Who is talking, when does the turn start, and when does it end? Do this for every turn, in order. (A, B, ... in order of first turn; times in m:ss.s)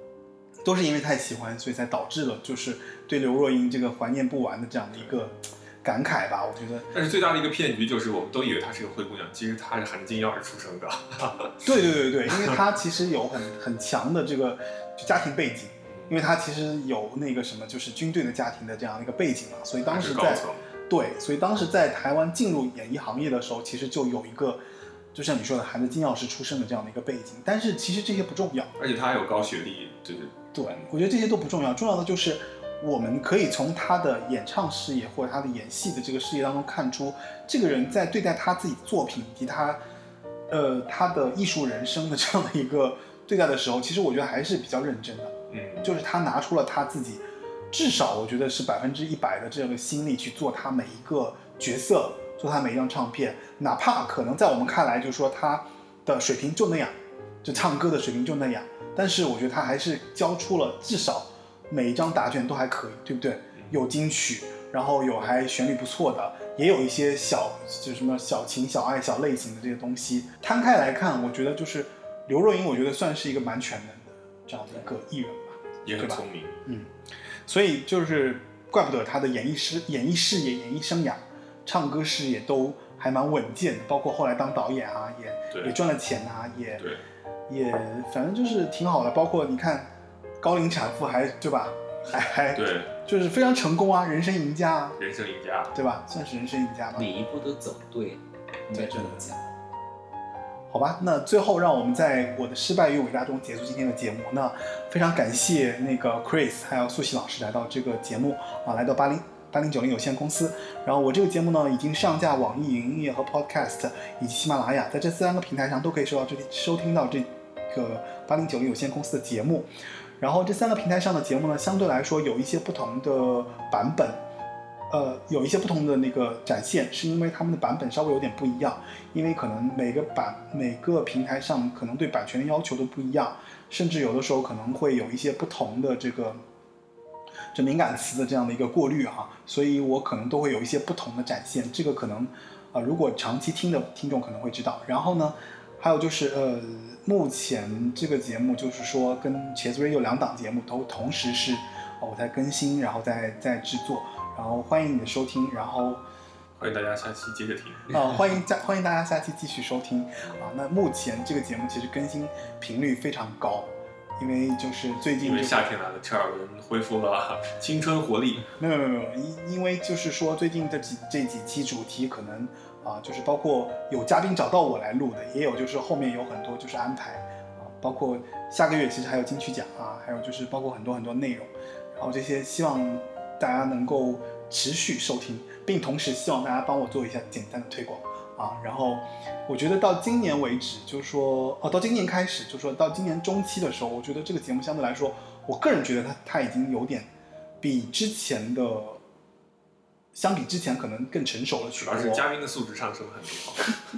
0:00.6-0:06.9 A
0:06.9-0:11.7 B
0:11.6-0:24.6 A
0:12.3-0:12.6 B
0:19.9-0:20.6 B
0:25.1-0:28.7 A
0:28.8-0:30.9 B
0:30.5-0:39.8 A
0:40.5-1:16.9 A
0:45.5-0:45.9 B
1:15.8-1:16.6 B
1:17.5-1:26.8 A
1:25.5-1:25.8 B
1:27.5-1:29.9 A
1:30.4-1:35.0 A
1:32.5-1:32.9 B
1:35.0-1:35.8 B
1:35.7-1:37.1 A
1:37.0-1:39.4 C
1:38.7-1:39.1 A
1:40.7-1:59.7 A
2:00.2-2:04.2 A
2:04.9-2:16.4 A
2:17.5-2:36.0 A
2:36.6-2:37.9 B
2:37.9-2:45.7 A
2:45.2-2:48.5 B
2:48.6-3:17.1 A
3:17.6-3:19.0 A
3:20.2-3:22.3 A
3:21.8-3:23.8 B